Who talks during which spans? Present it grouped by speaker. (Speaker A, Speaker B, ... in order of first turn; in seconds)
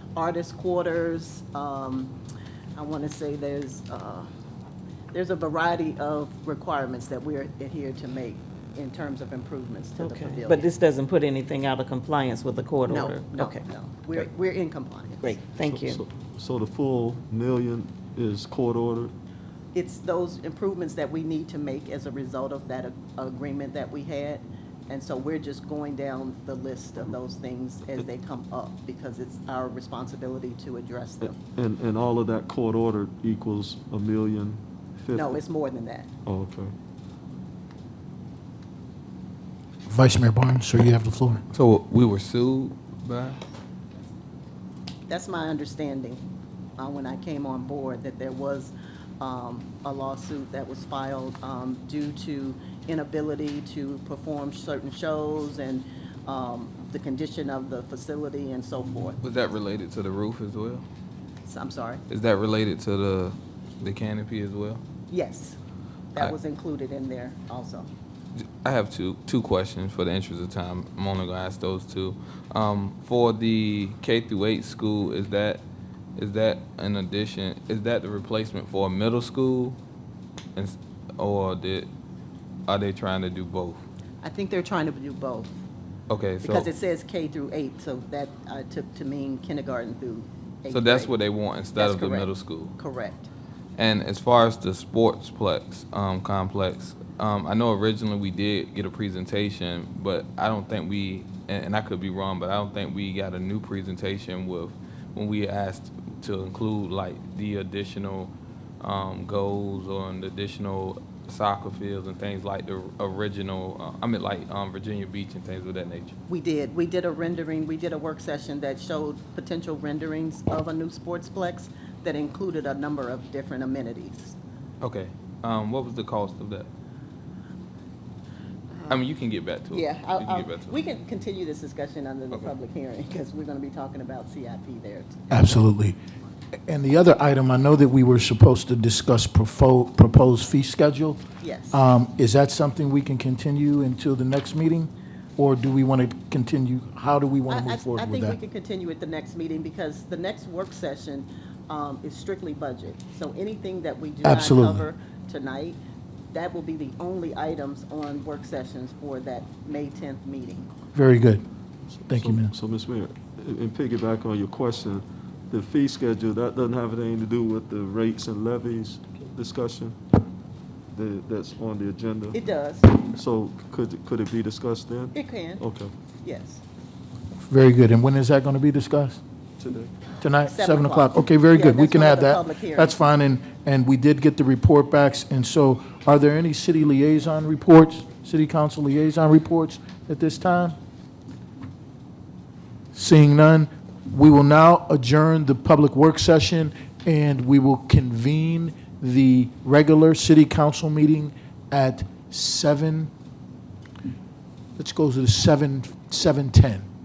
Speaker A: 0.2-2.2, 2.8-4.3, 5.1-10.7, 12.9-15.4, 19.7-31.4, 35.1-36.1, 45.1-46.2, 46.8-59.2, 61.5-62.0, 65.1-65.6, 66.1-67.9, 84.2-85.6, 86.4-91.2, 91.8-93.3, 116.3-124.4, 129.7-135.6, 141.4-141.9, 147.5-155.8, 156.3-160.7, 172.3-173.0, 175.1-175.7, 176.2-176.6, 180.5-183.0
Speaker B: 9.9-14.3, 15.2-16.0
Speaker C: 15.6-19.1, 31.2-35.4, 36.2-36.7, 161.9-170.0, 170.9-172.4, 172.9-175.9, 179.6-179.9
Speaker D: 39.9-41.4, 135.3-136.0, 136.7-141.2, 141.7-148.4, 154.2-154.9, 160.9-161.5, 162.1-162.5, 177.4-179.2, 180.2-190.8, 192.9-203.1, 204.8-206.9
Speaker E: 41.5-43.4, 59.2-60.9, 62.1-64.8, 68.6-75.6, 76.2-79.8, 80.6-81.9, 82.7-83.8, 86.1-86.7, 90.7-92.8, 93.8-116.2, 124.8-126.7, 128.9-130.8